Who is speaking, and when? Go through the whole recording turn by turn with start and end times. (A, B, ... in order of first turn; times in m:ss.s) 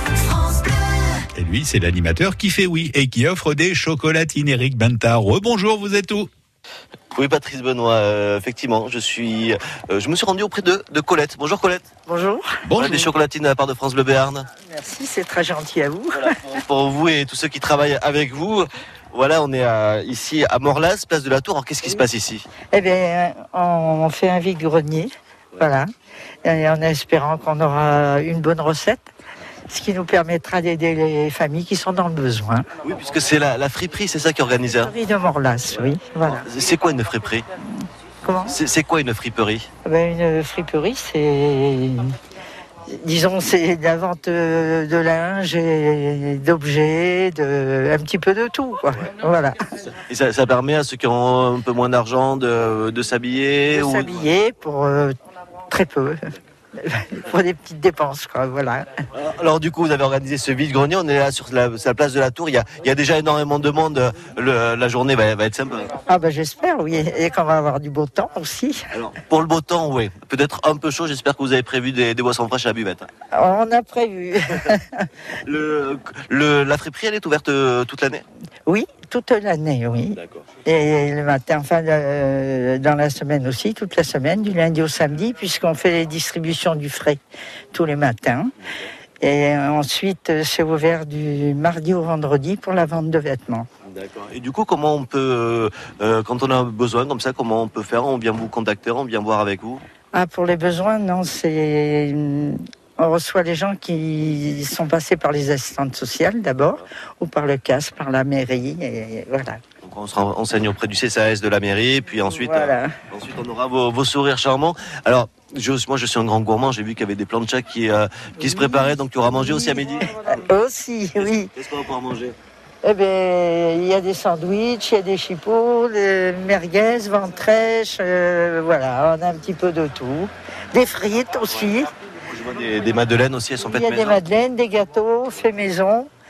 0:01.3-0:06.3 A
0:07.1-0:11.9 B
0:12.0-0:12.6 C
0:12.6-0:13.1 A
0:12.8-0:14.4 B
0:14.6-0:16.4 C
0:16.1-0:22.5 B
0:22.7-0:25.9 C
0:26.4-0:29.1 C
0:29.7-0:32.6 C
0:32.8-0:34.9 B
0:34.8-0:36.4 C
0:36.2-0:37.4 B
0:38.2-0:38.5 C
0:38.5-0:39.7 B
0:39.8-0:42.1 C
0:42.9-0:49.6 C
0:50.1-0:54.3 B
0:53.7-0:55.1 C
0:55.7-0:56.2 C
0:56.8-0:58.9 C
0:59.1-1:05.9 B
1:06.0-1:08.9 C
1:08.9-1:13.0 B
1:13.3-1:15.1 C
1:15.4-1:18.2 B
1:18.6-1:27.2 C
1:20.2-1:20.4 B
1:27.7-1:28.5 C
1:29.2-1:33.7 C
1:33.9-1:39.8 B
1:40.1-1:49.6 C
1:49.8-2:00.4 B
1:52.3-1:52.9 C
2:00.1-2:01.5 C
2:01.2-2:02.4 B
2:02.8-2:11.9 C
2:12.2-2:14.2 B
2:13.6-2:16.1 C